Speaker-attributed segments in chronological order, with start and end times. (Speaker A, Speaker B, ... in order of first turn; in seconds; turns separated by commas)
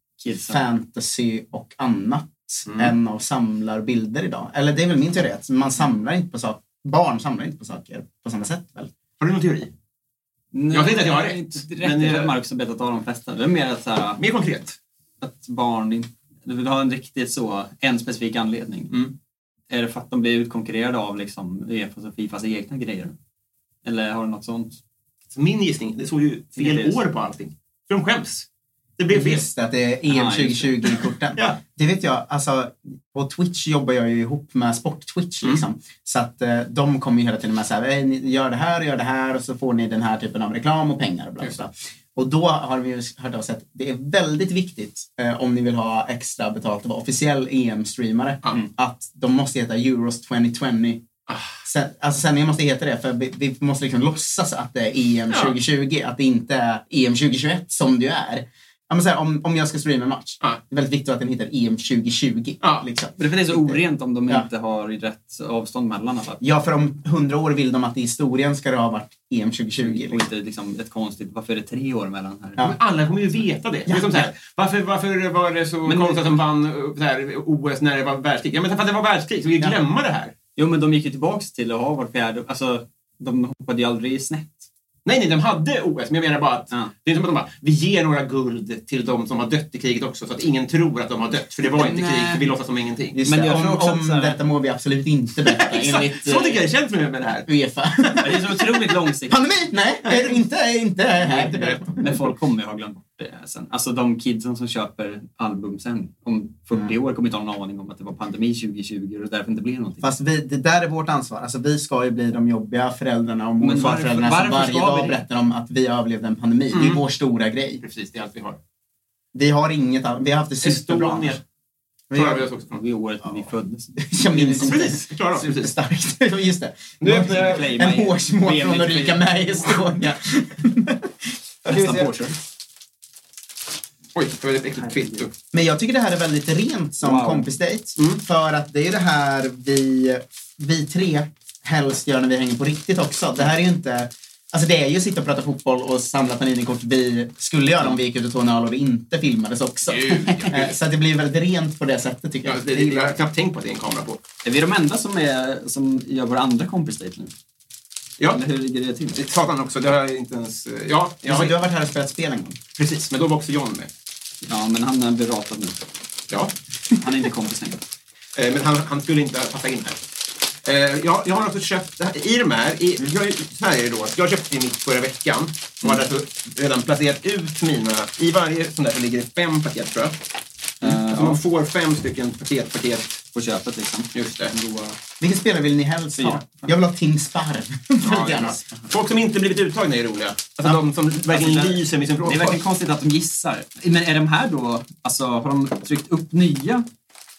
Speaker A: 0.2-0.6, Speaker B: 0.4-8.9, Speaker C: 2.7-2.9, Speaker C: 9.2-9.7, Speaker A: 10.5-14.2, Speaker C: 10.7-12.4, Speaker C: 14.2-14.8, Speaker A: 15.2-18.9, Speaker A: 19.7-23.1, Speaker A: 23.8-24.8, Speaker C: 25.3-28.4, Speaker A: 26.6-26.9, Speaker C: 29.0-29.4, Speaker B: 29.1-51.0, Speaker A: 30.1-30.7, Speaker B: 51.6-64.5, Speaker C: 55.3-55.6, Speaker C: 62.6-62.9, Speaker A: 63.1-66.4, Speaker B: 66.4-70.3, Speaker A: 69.8-72.6, Speaker C: 72.6-80.3, Speaker B: 73.9-74.3, Speaker A: 75.8-76.4, Speaker A: 80.5-84.7, Speaker C: 85.0-93.2, Speaker A: 91.7-92.5, Speaker B: 93.1-96.6, Speaker A: 93.2-94.4, Speaker C: 95.4-97.5, Speaker B: 97.5-98.6, Speaker C: 98.0-99.1, Speaker A: 98.2-99.4, Speaker B: 99.2-102.2, Speaker C: 100.1-100.4, Speaker C: 101.2-102.3, Speaker A: 102.0-110.1, Speaker B: 110.0-117.8, Speaker A: 113.6-115.2, Speaker C: 116.7-117.0, Speaker C: 117.8-118.6, Speaker B: 119.3-121.4, Speaker C: 120.6-121.4, Speaker B: 122.1-122.5, Speaker C: 122.1-122.8, Speaker A: 122.7-124.7, Speaker B: 123.2-132.3, Speaker C: 124.3-125.7, Speaker C: 127.0-127.8, Speaker A: 127.2-129.2, Speaker A: 131.7-132.4, Speaker C: 134.1-135.3, Speaker B: 135.5-153.2, Speaker A: 137.0-137.5, Speaker C: 149.8-150.8, Speaker C: 152.4-154.2, Speaker A: 154.4-157.3, Speaker A: 158.3-159.2, Speaker C: 159.1-161.6, Speaker B: 161.3-162.6, Speaker C: 162.8-163.9, Speaker A: 164.4-165.8, Speaker A: 167.0-167.8, Speaker C: 168.3-170.0, Speaker C: 170.6-180.2, Speaker C: 180.8-183.3, Speaker A: 180.8-181.4, Speaker A: 183.3-184.9, Speaker C: 184.1-184.5, Speaker B: 185.2-188.7, Speaker A: 186.2-186.4, Speaker C: 188.0-192.6, Speaker A: 191.3-196.9